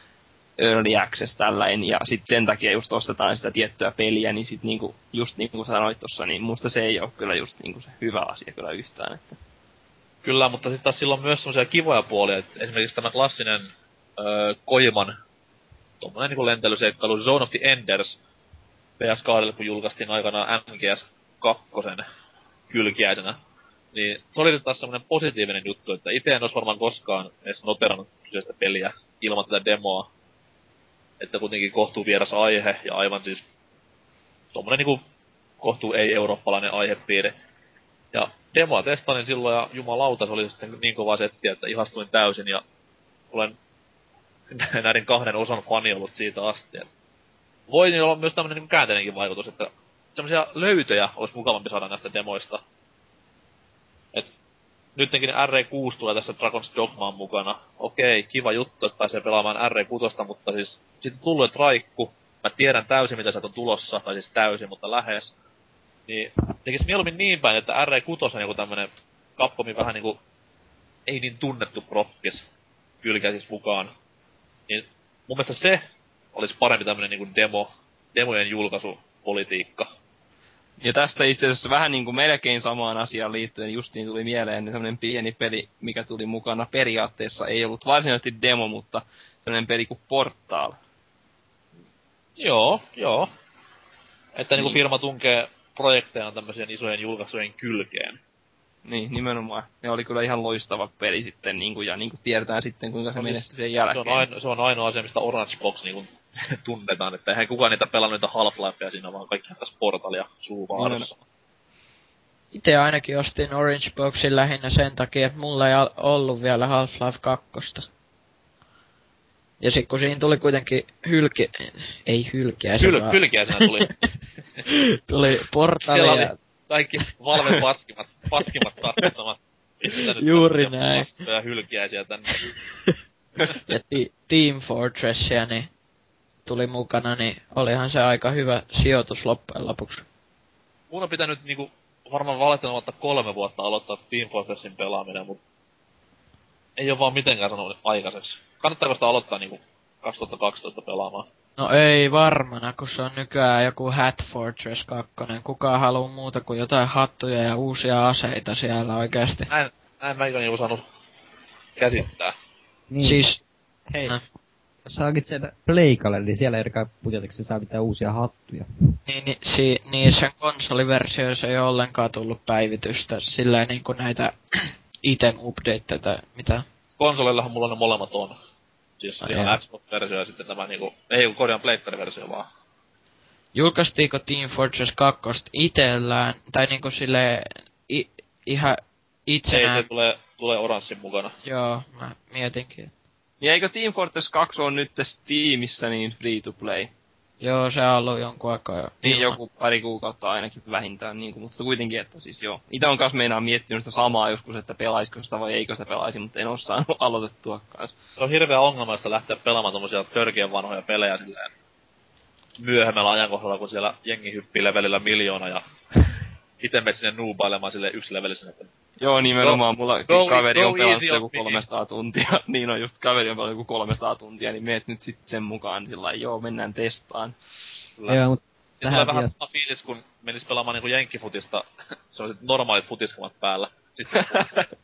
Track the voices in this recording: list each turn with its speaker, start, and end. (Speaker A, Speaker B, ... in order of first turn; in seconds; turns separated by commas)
Speaker A: 0.6-9.4, Speaker B: 10.2-15.1, Speaker B: 16.0-18.2, Speaker B: 19.0-22.0, Speaker B: 22.7-23.4, Speaker B: 23.9-30.1, Speaker B: 31.2-33.4, Speaker B: 34.5-35.0, Speaker B: 35.6-37.3, Speaker B: 38.1-42.6, Speaker B: 44.5-46.9, Speaker B: 47.7-52.6, Speaker B: 55.0-65.3, Speaker B: 66.1-70.2, Speaker B: 71.1-72.4, Speaker B: 73.0-73.9, Speaker B: 74.7-75.8, Speaker B: 76.3-79.9, Speaker A: 80.8-90.8, Speaker B: 92.4-93.3, Speaker B: 94.3-98.2, Speaker A: 98.8-104.3, Speaker B: 103.2-103.4, Speaker B: 103.9-111.2, Speaker A: 110.7-111.1, Speaker C: 112.5-117.8, Speaker C: 119.6-123.2, Speaker B: 122.8-123.9, Speaker C: 124.7-126.3, Speaker B: 125.9-132.5, Speaker C: 130.2-131.1, Speaker C: 133.7-135.7, Speaker C: 136.5-140.1, Speaker B: 140.9-145.4, Speaker B: 146.8-151.3, Speaker C: 151.6-159.5, Speaker B: 159.5-160.8, Speaker B: 161.8-162.3, Speaker D: 162.9-163.2, Speaker C: 163.0-163.4, Speaker D: 163.9-164.2, Speaker D: 164.9-168.9, Speaker C: 169.1-176.7, Speaker B: 177.0-178.3, Speaker B: 179.0-182.5, Speaker C: 179.2-179.6, Speaker C: 183.6-189.9, Speaker B: 189.5-191.3, Speaker C: 191.4-192.9, Speaker A: 193.4-196.9, Speaker C: 197.4-199.4, Speaker A: 199.0-207.9, Speaker B: 208.2-211.5, Speaker B: 212.6-215.6, Speaker B: 216.6-218.7, Speaker A: 219.0-227.4, Speaker B: 219.4-221.6, Speaker D: 228.1-229.3, Speaker B: 228.8-234.7